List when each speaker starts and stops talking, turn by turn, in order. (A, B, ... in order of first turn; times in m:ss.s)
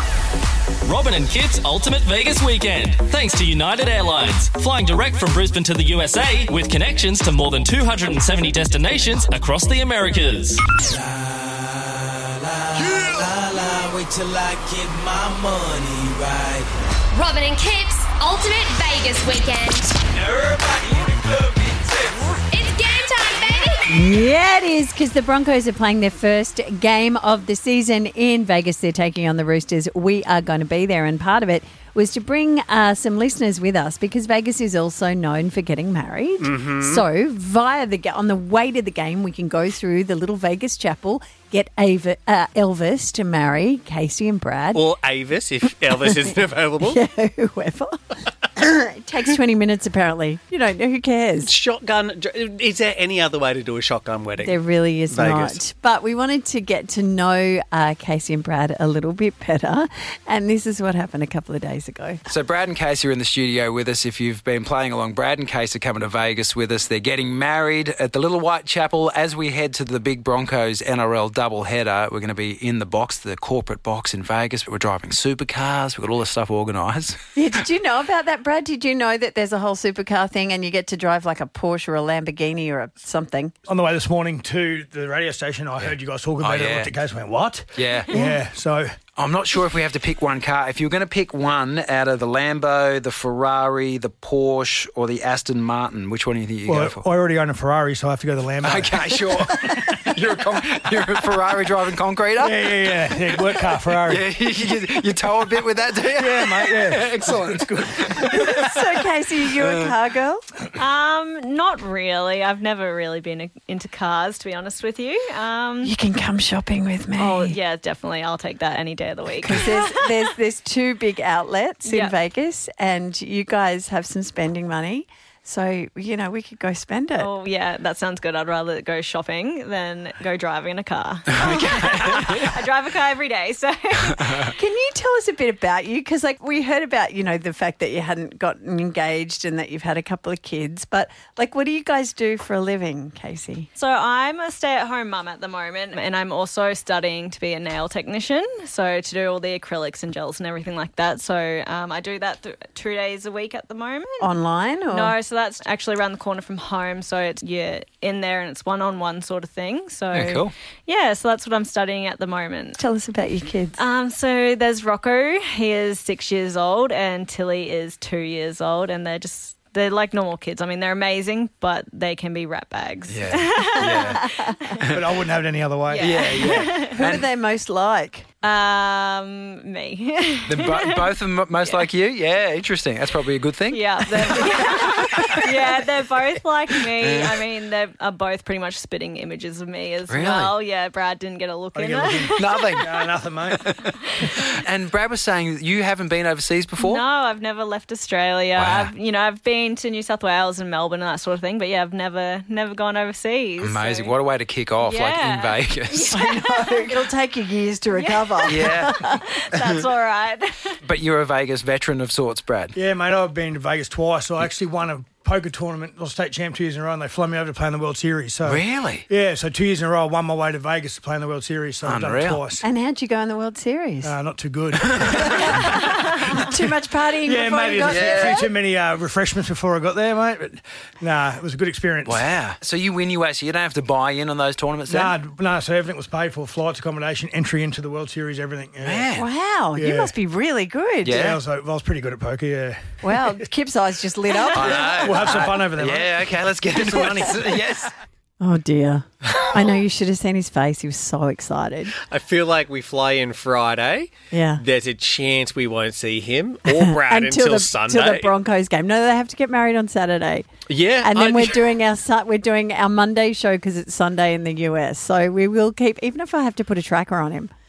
0:00.8-0:10.6 A
0:11.0-0:11.3 B
0:12.4-0:16.5 B
0:17.1-0:20.0 C
0:20.3-0:21.2 B
0:22.5-0:23.8 C
0:23.9-0:44.9 D
0:36.4-0:37.0 E
0:44.8-0:47.0 E
0:45.9-0:48.0 D
0:48.5-0:51.6 D
0:51.5-0:54.5 E
0:54.4-1:02.2 D
0:55.1-0:55.6 E
1:02.3-1:17.2 F
1:17.4-1:23.5 D
1:23.7-1:28.9 G
1:25.8-1:26.9 F
1:27.8-1:28.2 F
1:28.1-1:28.4 D
1:29.2-1:37.0 F
1:36.7-1:39.3 G
1:38.6-1:48.8 F
1:42.4-1:44.3 G
1:46.2-1:48.3 G
1:48.3-1:50.4 D
1:49.6-1:49.9 F
1:50.8-1:56.0 H
1:55.8-1:57.6 D
1:57.2-2:00.0 H
1:59.4-2:07.3 D
2:01.8-2:02.2 H
2:07.2-2:14.6 H
2:11.4-2:12.5 F
2:14.5-2:23.7 D
2:23.8-2:34.4 H
2:34.2-2:35.2 D
2:34.9-2:42.8 H
2:40.1-2:40.5 F
2:42.8-2:43.8 D
2:43.8-2:54.8 H
2:53.1-2:54.2 F
2:53.8-2:54.6 D
2:54.8-2:55.1 F
2:54.9-2:56.2 G
2:55.9-2:57.0 H
2:56.0-2:57.2 F
2:56.8-2:58.2 D
2:58.4-3:01.9 H
3:00.5-3:04.5 F
3:03.7-3:12.8 H
3:07.0-3:07.4 F
3:10.1-3:10.6 F
3:11.8-3:13.6 G
3:12.4-3:17.0 F
3:16.8-3:24.2 H
3:18.6-3:18.9 F
3:23.6-3:26.2 F
3:24.8-3:27.0 H
3:26.1-3:29.2 D
3:27.9-3:30.7 H
3:28.5-3:28.9 F
3:30.8-3:32.8 F
3:32.8-3:42.6 G
3:38.4-3:39.1 F
3:41.8-3:42.4 F
3:42.6-3:44.2 D
3:44.0-3:45.4 G
3:44.7-3:45.1 F
3:45.2-3:48.5 D
3:47.3-3:52.3 G
3:47.9-3:48.4 F
3:52.0-3:55.2 F
3:54.9-3:59.1 G
3:58.8-3:59.3 F
3:59.1-4:01.3 D
3:59.8-4:00.1 G
4:01.0-4:01.4 F
4:01.2-4:02.9 G
4:03.0-4:05.4 D
4:04.5-4:07.7 G
4:04.5-4:07.9 F
4:08.4-4:11.9 D
4:12.0-4:18.3 E
4:14.3-4:14.6 D
4:16.6-4:20.5 D
4:20.7-4:21.5 E
4:21.0-4:27.5 D